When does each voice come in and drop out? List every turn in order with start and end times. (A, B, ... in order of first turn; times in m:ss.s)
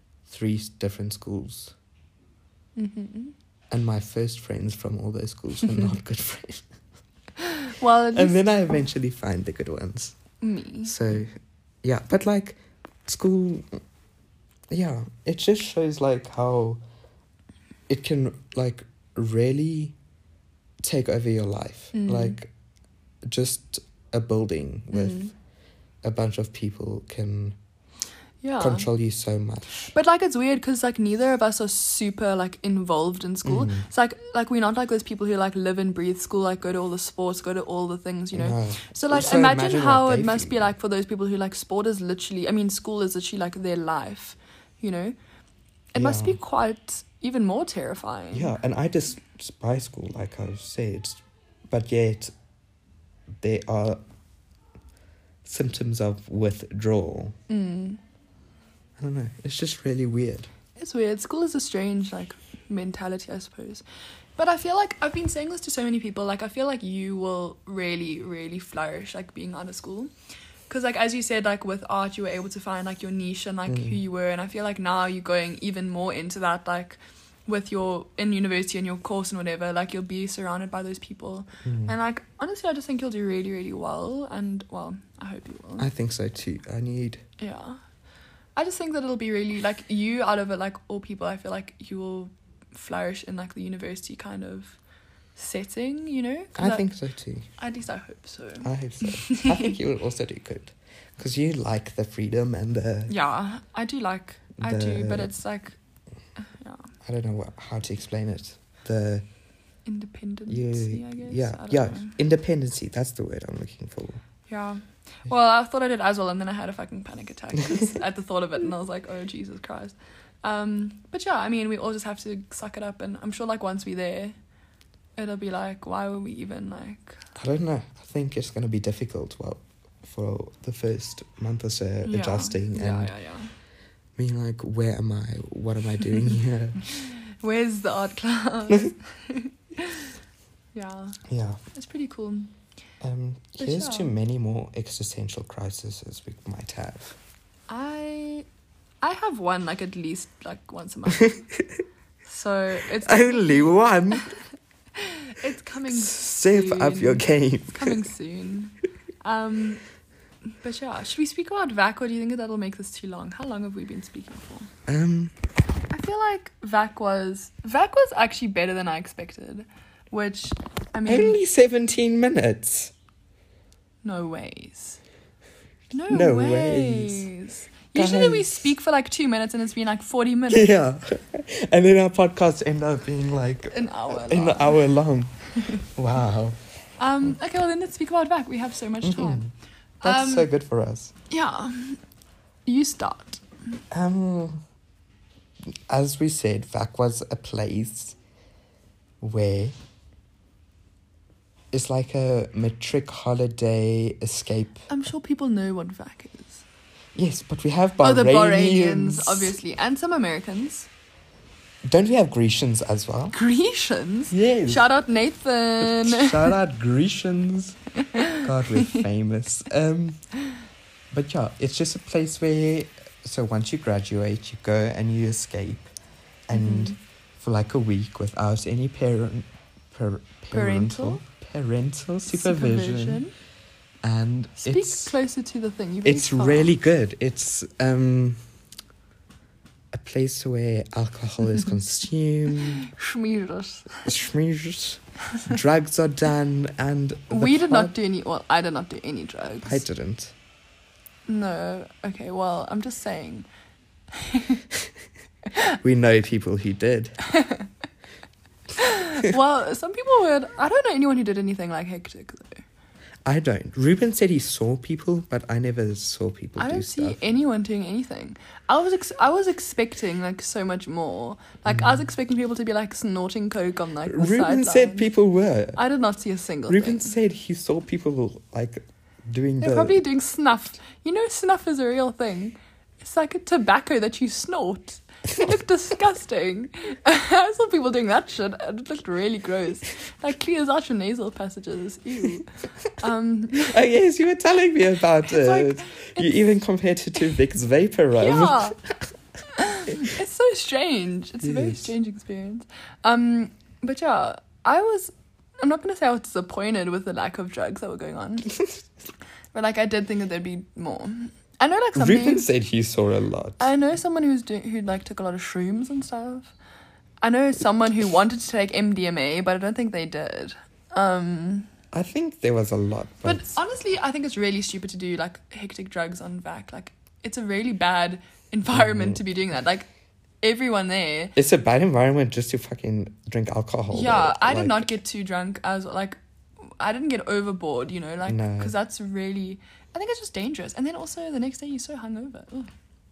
0:00.3-0:01.8 A
0:02.8-0:03.3 B
0:03.7-0:06.6 A
0:07.4-0:08.4 B
0:08.1-0:10.2 A
0:10.4-0:11.0 B
0:10.8-0:13.8 A
0:14.7-0:16.8 A
0:17.9-0:20.0 A
0:20.8-0:22.5 A
0:21.9-0:22.4 B
0:23.3-0:25.3 A
0:24.9-0:25.3 B
0:26.0-0:27.6 A
0:28.4-0:28.9 B
0:28.6-0:29.9 A
0:29.9-0:45.2 B
0:33.4-0:33.8 A
0:38.3-0:40.7 A
0:45.9-0:48.5 B
0:46.0-0:46.4 A
0:48.3-0:52.3 A
0:53.4-0:54.0 A
0:55.4-0:57.4 A
0:57.5-0:58.0 B
0:59.0-1:00.5 A
1:00.8-1:03.8 B
1:04.4-1:10.1 B
1:10.7-1:25.9 B
1:13.7-1:14.0 A
1:21.6-1:22.0 A
1:25.8-1:27.2 A
1:27.4-1:27.8 B
1:28.6-1:34.8 B
1:35.4-1:36.9 B
1:36.6-1:37.5 A
1:37.6-1:39.7 B
1:38.6-1:43.1 A
1:43.1-1:45.8 B
1:44.6-1:45.3 A
1:46.6-1:46.9 B
1:47.0-1:49.2 A
1:49.9-1:52.2 B
1:50.5-1:54.2 A
1:54.5-2:04.4 B
2:05.2-2:07.2 B
2:07.4-2:13.1 A
2:12.0-2:13.5 B
2:14.2-2:16.8 A
2:16.9-2:20.2 B
2:20.8-2:22.5 B
2:21.3-2:21.6 A
2:23.0-2:27.2 A
2:23.6-2:24.1 B
2:27.7-2:28.5 B
2:29.0-2:31.4 B
2:31.2-2:31.8 A
2:32.3-2:34.3 B
2:33.0-2:34.3 A
2:35.0-2:39.8 B
2:35.9-2:38.0 A
2:40.6-2:44.7 B
2:44.9-2:45.4 A
2:45.9-2:51.4 B
2:51.1-2:52.9 A
2:54.0-2:55.0 B
2:55.9-3:00.7 B
2:56.1-2:57.3 A
2:58.0-2:58.6 A
3:00.5-3:06.6 A
3:03.7-3:04.9 B
3:05.6-3:05.8 B
3:07.0-3:09.5 B
3:09.0-3:09.5 A
3:10.0-3:10.5 B
3:10.0-3:11.1 A
3:11.3-3:12.0 B
3:12.7-3:13.4 B
3:13.9-3:14.6 A
3:15.9-3:18.2 A
3:19.2-3:19.8 A
3:21.7-3:24.9 A
3:24.9-3:26.6 B
3:27.2-3:29.6 A
3:28.0-3:30.9 B
3:31.9-3:33.4 A
3:33.3-3:36.6 B
3:34.3-3:34.9 A
3:35.8-3:37.8 A
3:38.0-3:39.0 B
3:38.4-3:40.2 A
3:41.1-3:45.9 A
3:46.5-3:53.2 A
3:46.5-3:47.0 B
3:50.5-3:51.2 B
3:52.3-3:53.3 B
3:54.0-3:55.1 A
3:54.6-3:56.7 B
3:56.0-3:58.4 A
3:59.9-4:02.9 A
4:02.7-4:04.1 B
4:04.0-4:08.0 A
4:07.3-4:09.8 B
4:09.6-4:10.3 A
4:11.3-4:13.5 B
4:14.1-4:14.6 B
4:15.8-4:17.2 A
4:17.2-4:17.7 B
4:18.8-4:22.6 B
4:23.3-4:27.2 A
4:26.6-4:35.1 B
4:31.7-4:32.0 A
4:34.0-4:35.8 A
4:35.8-4:37.2 B
4:36.7-4:40.0 A
4:39.6-4:53.8 B
4:53.6-4:58.9 A
4:55.3-4:56.4 B
4:58.2-4:58.8 B
4:59.5-5:08.6 B
5:01.4-5:01.9 A
5:09.5-5:12.5 B
5:12.0-5:13.6 A
5:13.6-5:16.5 B
5:17.2-5:21.7 B
5:21.9-5:23.5 A
5:23.2-5:29.9 B
5:28.7-5:29.2 A
5:30.4-5:31.4 B
5:31.4-5:34.9 A
5:33.9-5:42.7 B
5:38.3-5:38.7 A